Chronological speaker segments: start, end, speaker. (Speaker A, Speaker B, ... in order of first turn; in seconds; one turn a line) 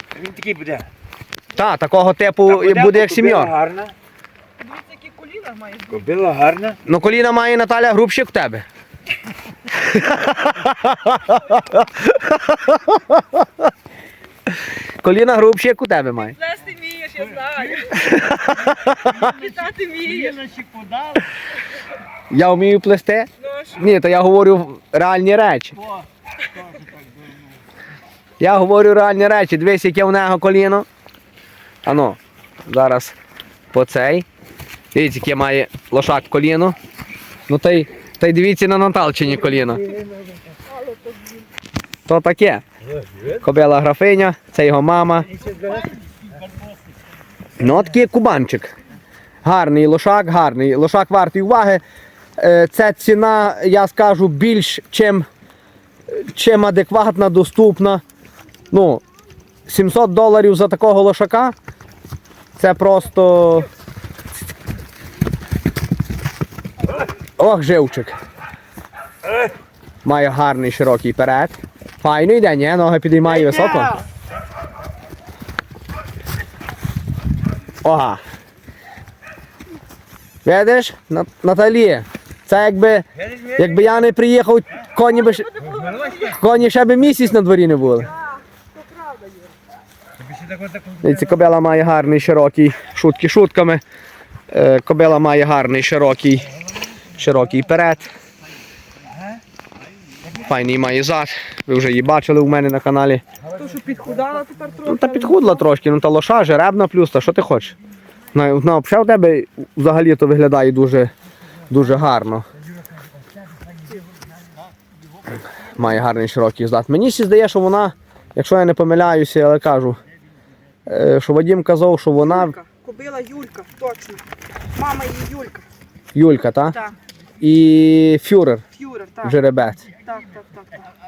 Speaker A: 0.1-0.9
Speaker B: 1.5-3.5
Speaker A: 2.5-3.9
Speaker C: 4.6-6.1
Speaker A: 5.9-6.8
Speaker B: 6.8-8.6
Speaker B: 9.7-13.2
Speaker B: 15.0-16.4
Speaker C: 16.4-18.1
Speaker B: 17.9-19.3
Speaker C: 19.1-20.4
Speaker A: 19.2-21.3
Speaker B: 22.3-25.8
Speaker C: 23.4-23.8
Speaker A: 26.9-27.4
Speaker B: 28.4-30.9
Speaker B: 31.8-33.1
Speaker B: 33.7-34.2
Speaker B: 34.9-36.7
Speaker B: 37.5-39.9
Speaker A: 40.0-40.4
Speaker C: 40.7-41.4
Speaker B: 42.1-42.6
Speaker A: 43.0-43.3
Speaker B: 43.4-45.3
Speaker A: 45.3-46.2
Speaker B: 47.6-48.7
Speaker B: 49.4-51.8
Speaker B: 52.4-55.3
Speaker B: 56.1-58.0
Speaker B: 58.7-59.0
Speaker B: 59.7-61.5
Speaker B: 62.6-63.7
Speaker B: 67.4-68.1
Speaker B: 70.0-74.0
Speaker A: 73.4-73.8
Speaker B: 77.8-78.2
Speaker B: 80.4-85.5
Speaker A: 83.3-83.7
Speaker C: 85.2-86.4
Speaker A: 85.8-86.2
Speaker B: 86.2-88.1
Speaker C: 88.6-89.5
Speaker A: 90.2-91.2
Speaker B: 91.0-93.8
Speaker B: 94.5-96.5
Speaker B: 97.1-98.1
Speaker B: 100.4-103.2
Speaker C: 103.5-105.6
Speaker B: 104.8-107.7
Speaker B: 108.3-111.1
Speaker B: 111.7-112.4
Speaker B: 115.7-120.0
Speaker B: 120.9-122.5
Speaker C: 122.2-125.7
Speaker B: 126.1-126.8
Speaker C: 126.7-127.0
Speaker B: 127.4-128.6
Speaker C: 128.8-130.7
Speaker B: 129.2-129.8